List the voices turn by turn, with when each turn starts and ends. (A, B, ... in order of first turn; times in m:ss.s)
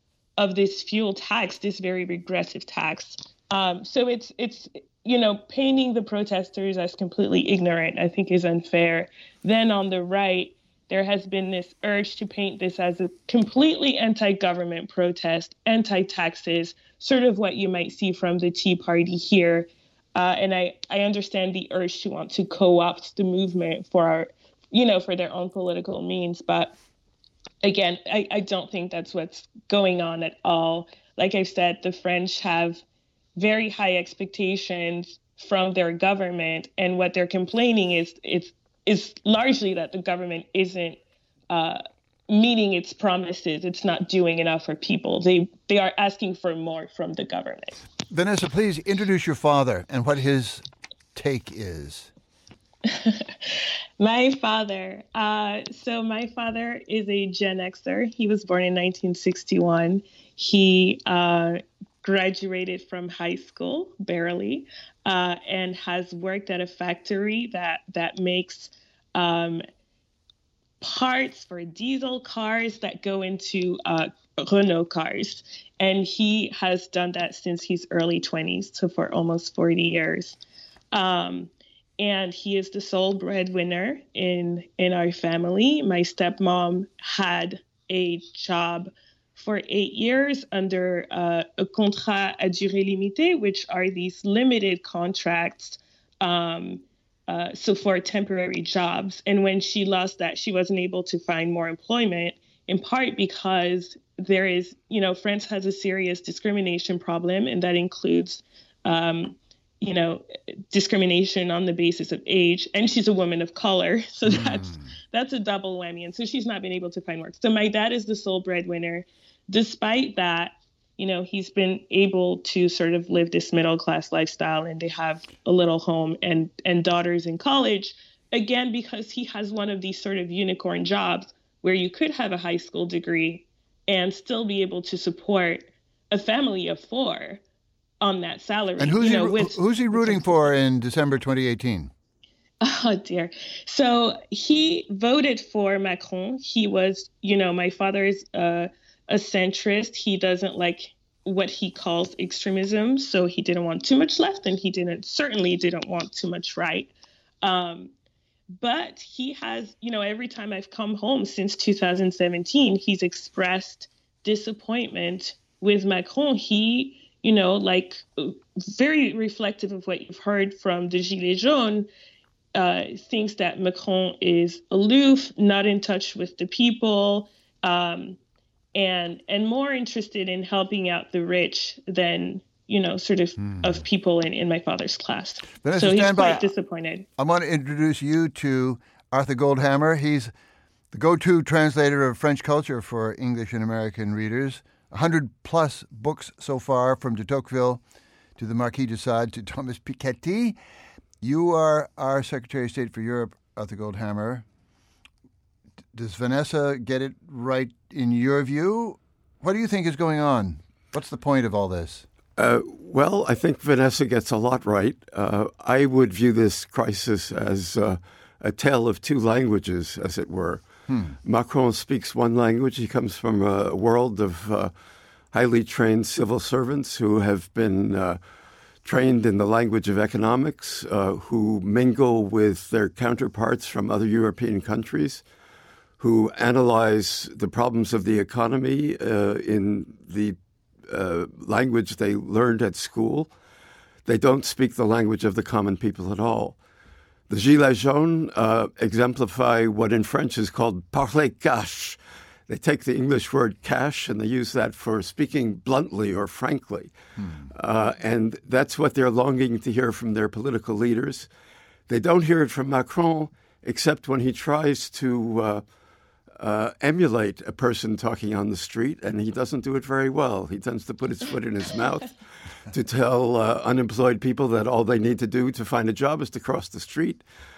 0:00.4-0:26.8 A
0:27.6-0:32.8 A
0:33.4-0:41.0 A
0:41.5-0:47.8 A
0:48.1-0:52.1 B
0:52.8-1:09.6 A
1:10.8-1:20.4 A
1:20.9-2:17.4 A
1:54.3-1:54.7 B
2:18.0-2:20.4 A
2:18.8-2:21.9 B
2:22.6-2:36.9 A
2:37.4-2:37.9 A
2:38.6-2:51.9 A
2:52.5-2:58.2 A
2:58.7-3:07.1 A
3:05.6-3:06.5 B
3:07.2-3:10.3 B
3:10.9-3:17.8 B
3:18.4-3:20.6 B
3:21.2-3:24.4 B
3:25.9-3:32.1 B
3:32.4-3:40.6 C
3:40.9-3:41.2 B
3:41.2-3:44.7 C
3:45.3-3:48.2 C
3:48.8-3:55.2 C
3:56.0-4:00.4 C
4:00.9-4:03.3 C
4:04.1-4:06.6 C
4:07.3-4:16.9 C
4:17.2-4:17.5 B
4:17.5-4:21.3 C
4:21.9-4:25.6 C
4:26.4-4:32.1 C
4:32.7-4:37.2 C